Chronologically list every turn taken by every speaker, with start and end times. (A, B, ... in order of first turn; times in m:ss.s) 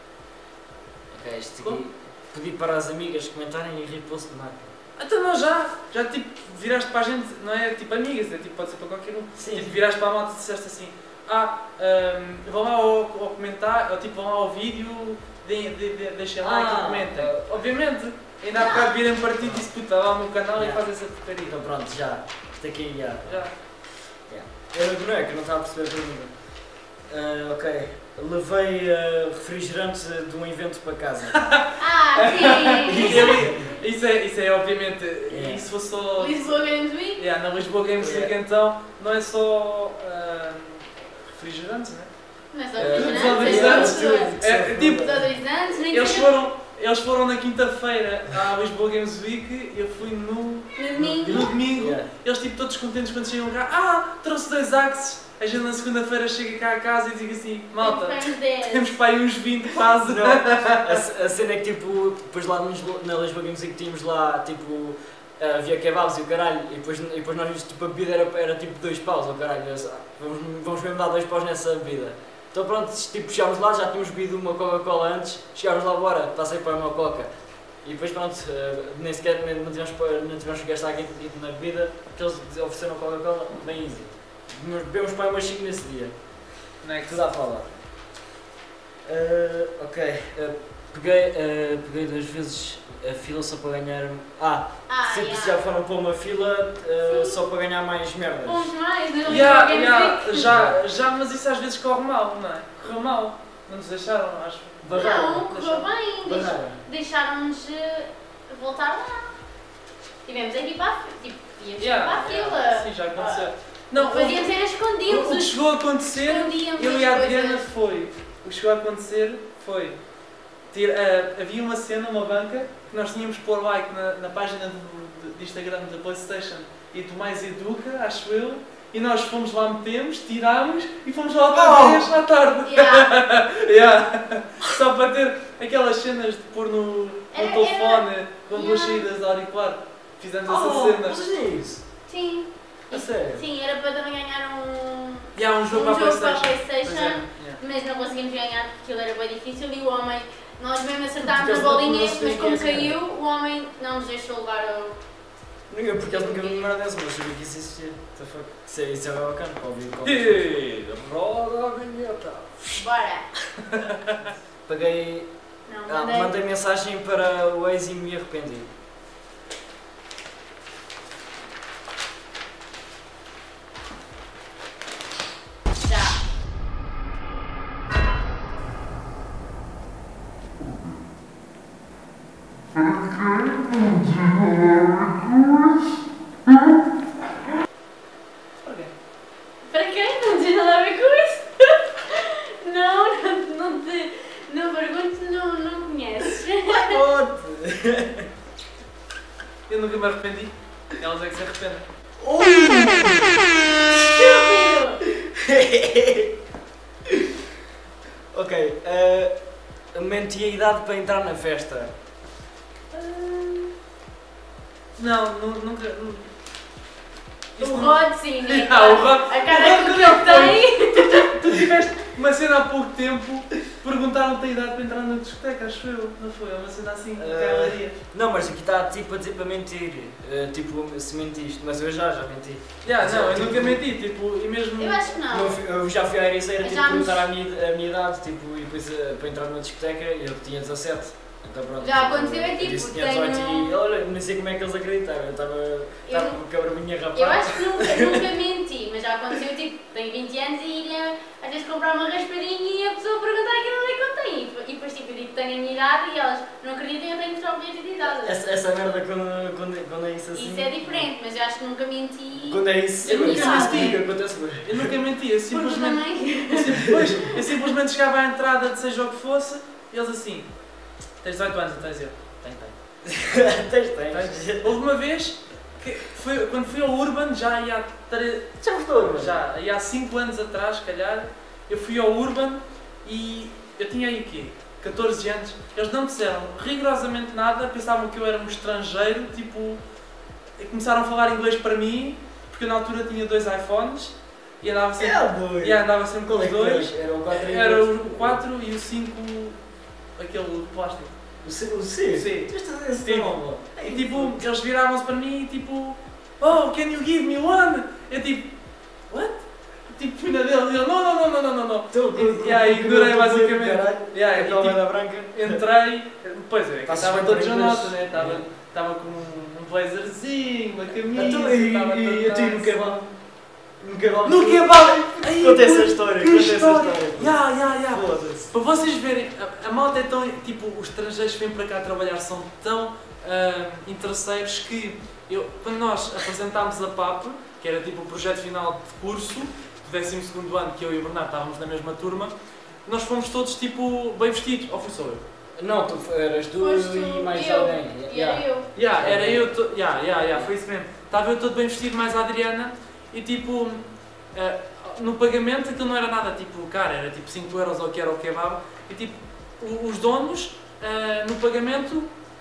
0:01.1-0:04.7 A
0:05.0-0:21.6 B
0:09.4-0:09.8 A
0:16.4-0:17.6 A
0:18.5-0:18.9 C
0:19.4-0:19.6 A
0:20.5-0:20.8 A
0:21.4-0:23.4 A
0:23.2-0:23.5 B
0:24.3-0:26.3 A
0:27.1-0:31.4 A
0:31.4-0:36.6 B
0:31.8-0:33.5 C
0:32.8-0:33.7 A
0:35.3-0:35.6 A
0:36.2-0:37.2 C
0:37.2-0:42.1 B
0:38.0-0:38.4 A
0:42.5-0:44.3 C
0:42.7-0:45.3 A
0:42.8-0:45.1 B
0:45.0-0:46.3 C
0:45.8-1:01.0 B
0:50.8-0:51.6 C
0:51.0-0:52.1 A
0:57.8-0:59.0 C
1:00.0-1:17.3 A
1:17.8-1:26.1 A
1:26.8-1:27.3 B
1:27.0-1:27.8 A
1:29.0-1:38.7 A
1:34.9-1:35.7 C
1:37.0-1:37.4 C
1:38.4-1:40.5 C
1:39.2-1:39.5 A
1:39.3-1:44.9 B
1:40.4-1:40.8 A
1:44.8-1:46.8 A
1:44.9-1:49.4 C
1:50.2-1:55.5 C
1:51.8-1:54.5 B
1:55.0-2:00.0 B
1:56.1-1:57.7 C
2:00.7-2:21.2 B
2:11.5-2:12.1 A
2:12.6-2:13.1 C
2:17.3-2:19.0 C
2:20.4-2:21.8 A
2:22.1-2:35.0 C
2:22.9-2:23.4 A
2:25.3-2:27.6 B
2:31.2-2:33.0 A
2:35.7-2:40.5 A
2:36.0-2:36.7 C
2:40.0-2:42.5 B
2:41.1-2:41.8 A
2:42.4-2:42.8 A
2:42.7-2:43.3 C
2:43.6-2:44.2 B
2:44.6-2:45.3 A
2:45.6-2:46.3 C
2:45.9-2:48.7 A
2:55.7-2:56.2 C
3:08.6-3:08.9 B
3:09.6-3:17.0 C
3:16.6-3:18.3 A
3:19.7-3:21.8 B
3:22.2-3:23.5 A
3:23.8-3:25.0 C
3:25.2-3:26.4 A
3:27.0-3:27.4 A
3:28.3-3:29.3 A
3:29.9-3:31.9 A
3:33.0-3:33.7 C
3:35.0-3:36.3 B
3:37.6-3:41.4 C
3:37.6-3:48.0 B
3:47.2-3:53.8 A
3:52.8-3:55.1 B
3:54.8-3:55.6 C
3:55.3-4:08.3 A
3:56.6-3:57.2 C
4:01.8-4:03.8 C
4:06.1-4:06.4 C
4:07.1-4:18.4 C
4:18.2-4:21.1 A
4:20.3-4:23.9 C
4:22.4-4:24.9 A
4:23.0-4:24.0 B
4:24.6-4:30.5 B
4:25.5-4:27.4 C
4:26.8-4:27.1 A
4:31.2-4:32.7 B
4:33.0-4:34.8 A
4:34.1-4:49.8 B
4:38.6-4:39.4 A
4:50.6-4:59.6 B
4:55.0-4:58.4 A
5:00.2-5:01.1 B
5:01.4-5:04.4 A
5:02.1-5:02.5 B
5:03.0-5:08.5 B
5:09.1-5:22.9 B
5:11.9-5:15.6 A
5:16.8-5:18.4 A
5:21.1-5:23.1 A
5:23.8-5:28.5 A
5:24.2-5:42.3 B
5:42.8-5:45.2 B
5:45.6-5:49.5 A
5:46.6-5:48.7 C
5:48.7-6:02.1 B